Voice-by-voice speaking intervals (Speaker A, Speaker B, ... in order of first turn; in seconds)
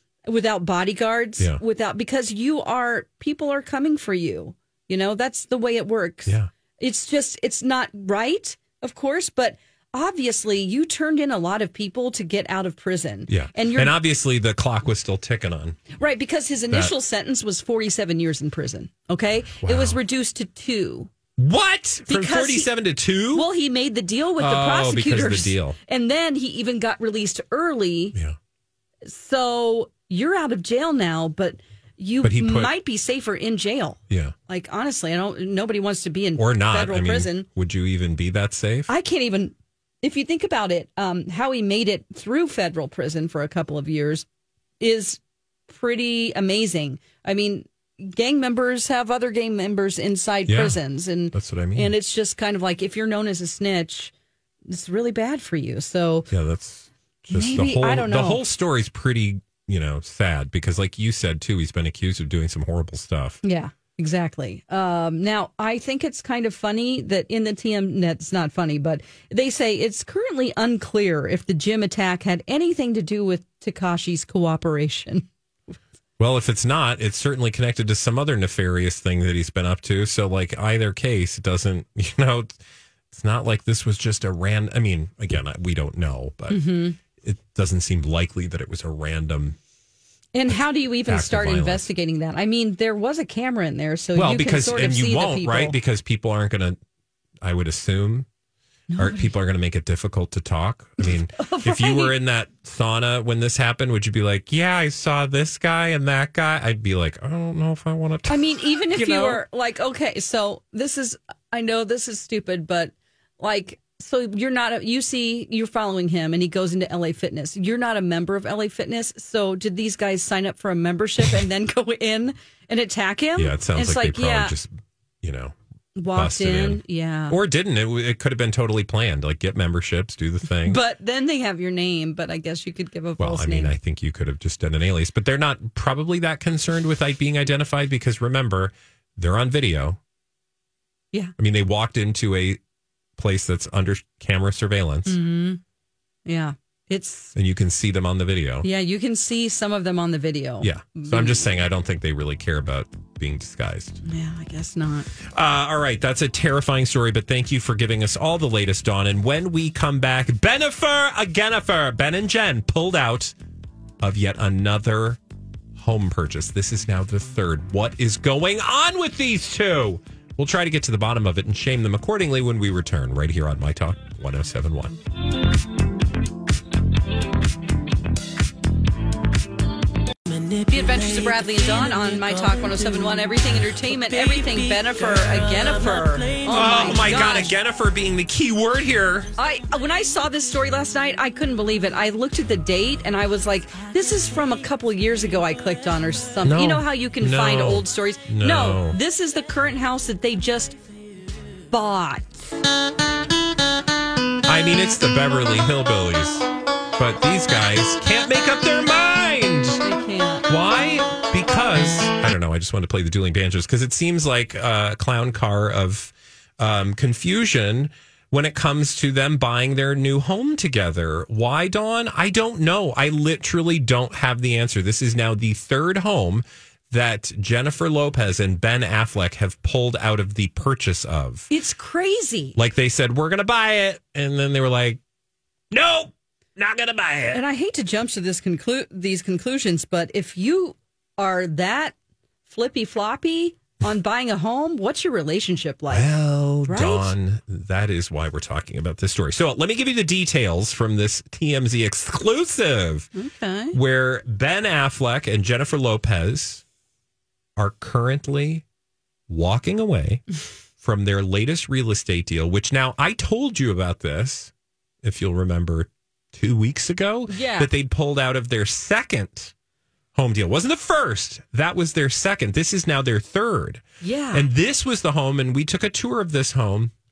Speaker A: 0.2-14.0, 15.9-21.1, 22.1-22.7, 23.3-28.1, 29.1-37.5, 38.9-44.2, 44.8-54.1, 54.7-56.3, 57.3-58.4, 63.4-75.3, 86.5-87.0, 90.3-95.8, 98.9-99.3, 101.0-102.1, 108.3-124.5, 126.0-127.4, 130.6-133.7, 145.1-145.6, 146.3-147.3, 148.6-151.5, 154.0-155.1, 180.7-187.5, 189.4-200.8, 201.7-202.6, 209.8-210.5, 231.5-232.6, 237.3-241.9, 242.5-246.1, 246.7-247.1, 253.2-253.8, 267.3-267.7, 274.0-274.5
Speaker B: 13.3-15.8, 16.7-16.9, 19.6-20.0, 21.4-23.5, 24.4-25.8, 32.2-32.7, 34.1-34.4, 36.4-38.9, 50.5-50.8, 51.3-51.9, 56.3-63.4, 76.2-82.6, 83.1-89.6, 91.0-91.9, 94.2-96.8, 97.4-98.3, 99.0-109.4, 123.4-124.7, 125.2-125.6, 126.1-130.8, 133.2-140.0, 141.4-142.6, 143.2-145.2, 147.3-148.7, 150.6-154.0, 155.2-163.3, 164.0-165.2, 165.8-175.0, 186.5-189.3, 196.4-199.0, 204.5-209.8, 210.5-231.5, 232.6-235.0, 235.7-237.4, 245.9-253.1, 253.7-256.6, 257.6-258.6, 259.3-260.2, 260.8-264.5, 265.0-269.5, 270.1-276.9